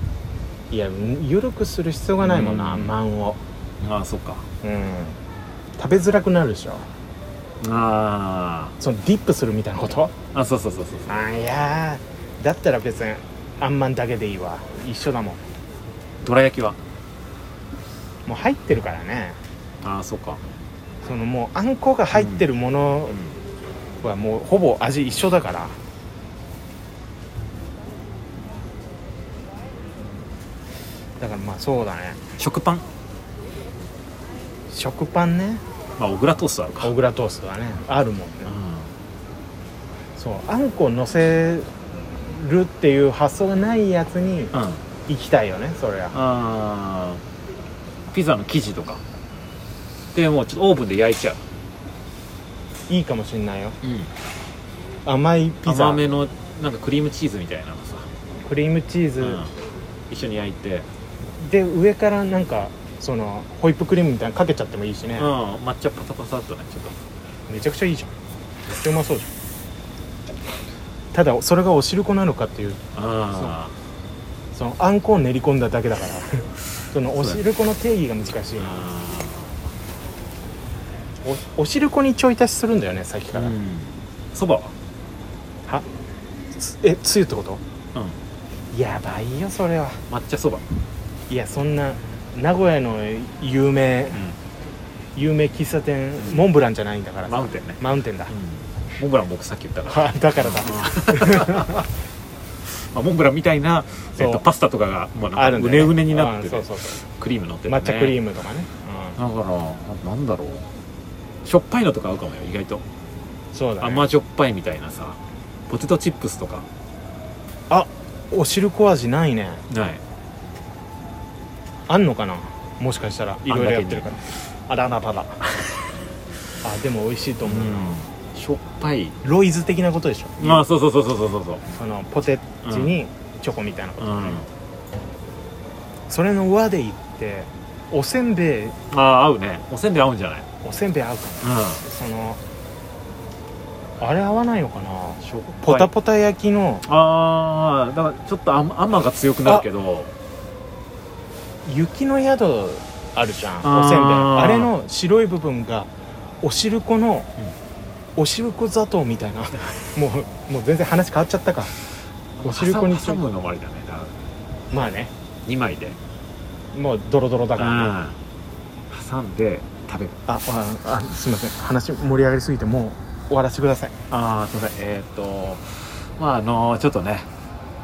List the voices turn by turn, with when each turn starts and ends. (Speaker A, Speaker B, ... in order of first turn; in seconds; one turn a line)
Speaker A: 0.7-3.4
Speaker B: 2.2-2.9
Speaker B: 3.8-4.5
Speaker A: 4.6-5.2
Speaker A: 5.8-6.8
Speaker B: 7.6-8.7
Speaker A: 8.8-10.1
Speaker B: 10.3-11.2
Speaker A: 11.1-15.4
Speaker B: 16.2-16.8
Speaker A: 18.2-19.4
Speaker B: 19.8-20.4
Speaker A: 21.0-23.2
Speaker B: 22.1-22.4
Speaker B: 23.1-23.4
Speaker A: 24.0-25.8
Speaker A: 31.2-32.2
Speaker B: 32.4-32.9
Speaker A: 34.7-35.6
Speaker B: 36.0-36.9
Speaker A: 36.8-38.5
Speaker B: 38.5-38.9
Speaker A: 40.1-41.7
Speaker A: 42.2-44.5
Speaker B: 44.5-44.8
Speaker A: 45.1-46.1
Speaker B: 46.1-47.2
Speaker B: 48.1-49.0
Speaker B: 50.1-51.4
Speaker A: 52.9-53.8
Speaker B: 53.8-54.1
Speaker A: 55.0-56.0
Speaker B: 55.6-58.1
Speaker A: 58.4-59.5
Speaker B: 59.2-59.5
Speaker B: 60.1-60.9
Speaker A: 61.3-65.3
Speaker B: 65.2-66.9
Speaker A: 67.5-68.1
Speaker A: 68.7-69.3
Speaker A: 71.1-72.8
Speaker B: 72.9-73.7
Speaker A: 74.5-78.9
Speaker B: 78.6-79.5
Speaker A: 81.2-83.5
Speaker B: 83.3-84.7
Speaker A: 86.5-87.6
Speaker A: 88.7-90.0
Speaker B: 90.1-90.7
Speaker A: 91.3-94.2
Speaker A: 95.2-98.3
Speaker B: 96.2-96.5
Speaker B: 97.2-101.8
Speaker A: 99.8-101.8
Speaker B: 102.6-108.2
Speaker A: 104.2-104.4
Speaker A: 105.3-107.0
Speaker A: 107.7-109.2
Speaker B: 109.2-110.6
Speaker B: 111.4-112.8
Speaker A: 113.5-114.1
Speaker B: 113.8-116.7
Speaker A: 117.7-119.6
Speaker B: 119.7-120.0
Speaker A: 121.9-125.7
Speaker B: 123.5-124.2
Speaker A: 126.6-128.0
Speaker B: 127.4-129.2
Speaker A: 129.2-130.6
Speaker B: 130.4-131.6
Speaker A: 131.7-134.4
Speaker B: 132.6-132.9
Speaker B: 134.0-134.5
Speaker A: 136.1-138.8
Speaker B: 138.9-140.5
Speaker A: 140.6-142.4
Speaker B: 141.4-141.8
Speaker A: 144.0-146.8
Speaker B: 145.2-145.9
Speaker B: 146.8-150.1
Speaker A: 151.6-155.9
Speaker B: 153.6-154.7
Speaker A: 156.4-157.3
Speaker A: 158.2-161.7
Speaker B: 162.4-164.1
Speaker A: 162.4-163.2
Speaker A: 164.7-165.1
Speaker B: 165.4-166.0
Speaker A: 166.7-167.9
Speaker B: 167.6-168.2
Speaker B: 168.9-170.2
Speaker A: 170.3-173.9
Speaker B: 174.1-177.3